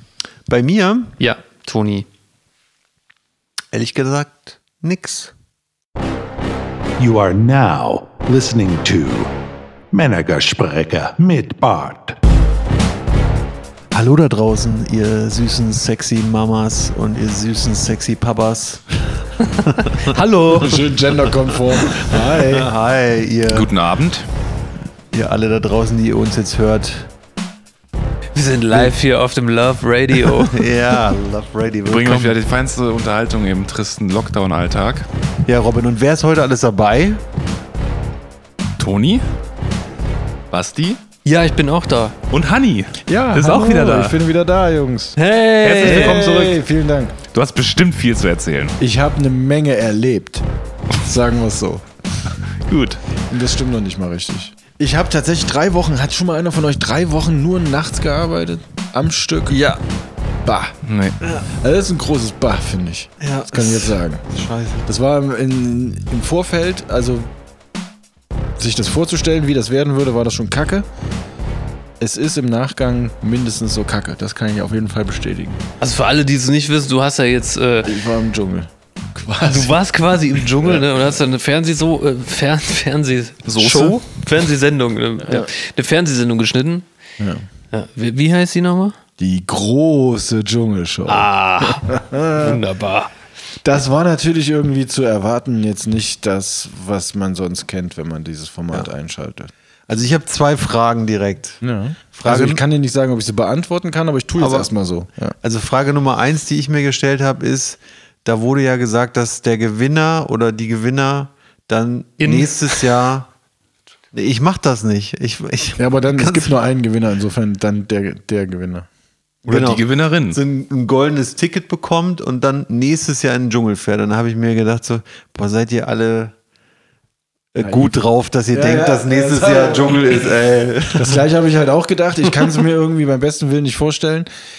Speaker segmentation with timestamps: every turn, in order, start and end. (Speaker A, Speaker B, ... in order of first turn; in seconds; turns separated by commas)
Speaker A: 0.5-1.1, Speaker B: 1.2-2.1, Speaker A: 3.7-5.3, Speaker C: 7.0-9.3, Speaker C: 9.9-12.2, Speaker A: 13.9-20.1, Speaker B: 20.1-20.8, Speaker D: 20.6-22.7, Speaker A: 22.1-23.7, Speaker E: 23.5-24.3, Speaker A: 25.1-27.1, Speaker B: 28.4-30.6, Speaker A: 30.4-32.4, Speaker E: 31.9-35.1, Speaker A: 35.5-37.2, Speaker E: 38.8-39.2, Speaker E: 40.5-41.0, Speaker B: 41.2-42.1, Speaker E: 42.3-44.2, Speaker D: 43.1-45.2, Speaker B: 45.2-46.3, Speaker E: 45.6-46.6, Speaker D: 45.8-47.2, Speaker E: 47.3-48.8, Speaker D: 48.8-50.4, Speaker D: 51.0-51.8, Speaker E: 52.7-53.0, Speaker D: 53.3-59.6, Speaker A: 59.5-59.8, Speaker D: 60.4-60.8, Speaker E: 60.9-61.2, Speaker D: 61.5-64.2, Speaker A: 63.2-64.9, Speaker D: 64.9-67.3, Speaker D: 68.6-70.9, Speaker D: 72.0-75.6, Speaker B: 75.8-78.0, Speaker D: 77.8-79.8, Speaker B: 79.5-86.9, Speaker E: 83.5-84.0, Speaker D: 87.2-87.5, Speaker B: 87.7-89.0, Speaker D: 89.2-92.6, Speaker B: 91.1-93.1, Speaker D: 93.6-99.5, Speaker A: 99.9-101.6, Speaker D: 101.6-105.3, Speaker A: 102.2-102.6, Speaker A: 104.4-104.7, Speaker A: 105.4-113.3, Speaker B: 112.2-112.8, Speaker A: 114.1-116.5, Speaker D: 115.8-118.9, Speaker A: 119.5-126.3, Speaker E: 119.5-120.4, Speaker A: 127.5-131.2, Speaker D: 127.6-127.9, Speaker D: 128.5-130.3, Speaker D: 130.9-134.3